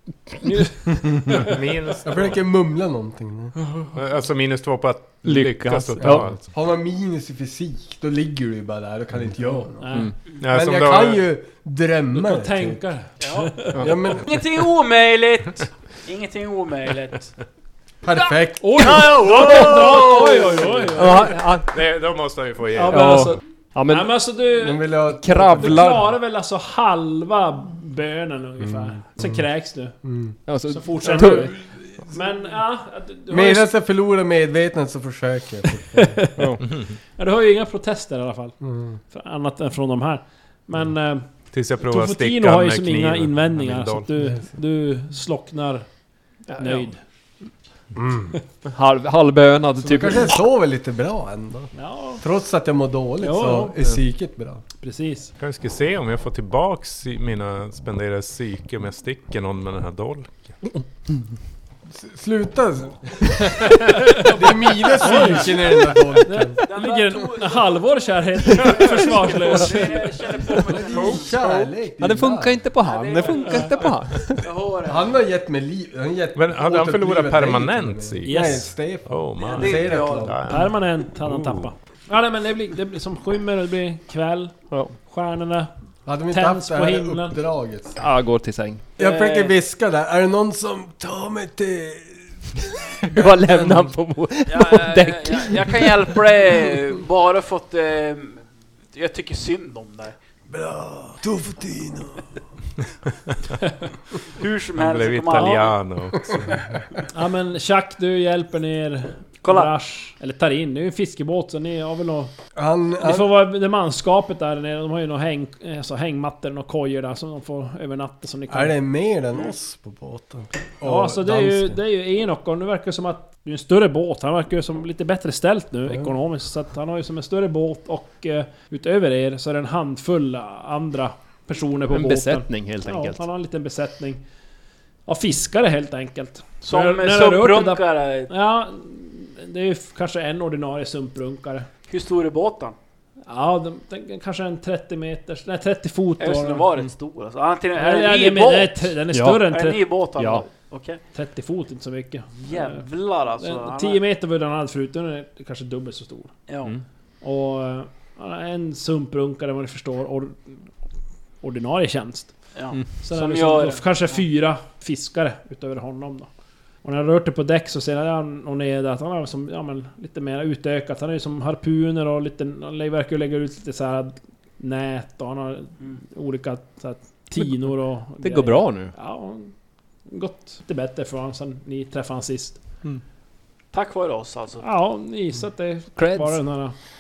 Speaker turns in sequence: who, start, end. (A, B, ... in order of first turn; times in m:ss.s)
0:00.4-0:01.6 A
0:01.3-0:02.4 B
0:02.0-0:03.5 C
0:03.9-0:06.5 B
0:05.2-0:06.4 D
0:06.0-0:09.9 C
0:09.8-0:10.1 A
0:10.4-0:11.2 B
0:10.5-0:12.8 C
0:12.1-0:13.8 A
0:13.2-0:13.7 E
0:13.8-0:14.3 C
0:14.2-0:17.3 E
0:18.0-0:19.5 C
0:18.6-0:21.4 A
0:18.8-0:21.7 D
0:21.7-0:23.2 B
0:22.7-0:24.8 A
0:22.9-0:24.2 D
0:24.6-0:25.8 C
0:25.1-0:26.1 D
0:25.5-0:30.0 A
0:28.6-0:29.4 C
0:30.0-0:30.4 C
0:30.5-0:31.6 D
0:30.7-0:33.7 A
0:33.3-0:36.2 C
0:35.9-0:38.6 A
0:36.4-0:36.6 D
0:38.6-0:39.0 C
0:39.1-0:41.2 A
0:41.5-0:44.3 B
0:41.8-0:45.9 A
0:46.5-0:46.9 D
0:46.6-0:47.0 A
0:48.0-0:48.3 C
0:48.6-0:50.3 D
0:49.8-0:54.6 C
0:51.7-0:52.2 A
0:53.2-0:53.8 A
0:54.8-0:55.3 A
0:55.4-1:00.5 B
1:01.9-1:06.6 C
1:04.0-1:04.3 A
1:05.0-1:10.2 A
1:06.6-1:11.7 E
1:10.5-1:12.6 C
1:10.9-1:11.4 B
1:11.9-1:14.5 D
1:12.8-1:15.1 E
1:14.8-1:20.4 C
1:16.4-1:21.7 B
1:18.2-1:18.7 A
1:19.4-1:20.4 E
1:20.5-1:25.7 A
1:24.7-1:24.9 D
1:26.0-1:28.0 C
1:26.3-1:27.4 A
1:28.0-1:28.9 D
1:29.0-1:29.5 E
1:29.0-1:33.9 C
1:33.1-1:36.0 D
1:34.5-1:40.2 E
1:40.5-1:42.2 C
1:44.2-1:45.8 E
1:44.7-1:46.8 B
1:45.3-1:45.6 A
1:47.1-1:52.3 A
1:49.4-1:49.7 E
1:52.6-1:53.3 C
1:53.0-1:58.7 A
1:58.5-2:01.8 C
2:00.8-2:14.2 A
2:11.9-2:13.2 D
2:15.1-2:21.7 A
2:16.6-2:18.3 E
2:21.9-2:22.8 E
2:23.3-2:26.7 A
2:26.2-2:29.0 E
2:27.7-2:29.9 A
2:29.1-2:29.4 D
2:29.5-2:31.0 E
2:30.1-2:30.4 D
2:31.1-2:32.8 A
2:32.4-2:34.0 E
2:33.4-2:36.3 A
2:36.5-2:36.7 E
2:37.2-2:40.7 A
2:41.4-2:46.3 A
2:42.5-2:44.2 E
2:46.8-2:59.5 A
2:57.4-2:58.9 D
3:00.1-3:02.6 A
3:03.7-3:04.6 E
3:04.6-3:06.7 A
3:06.0-3:06.4 D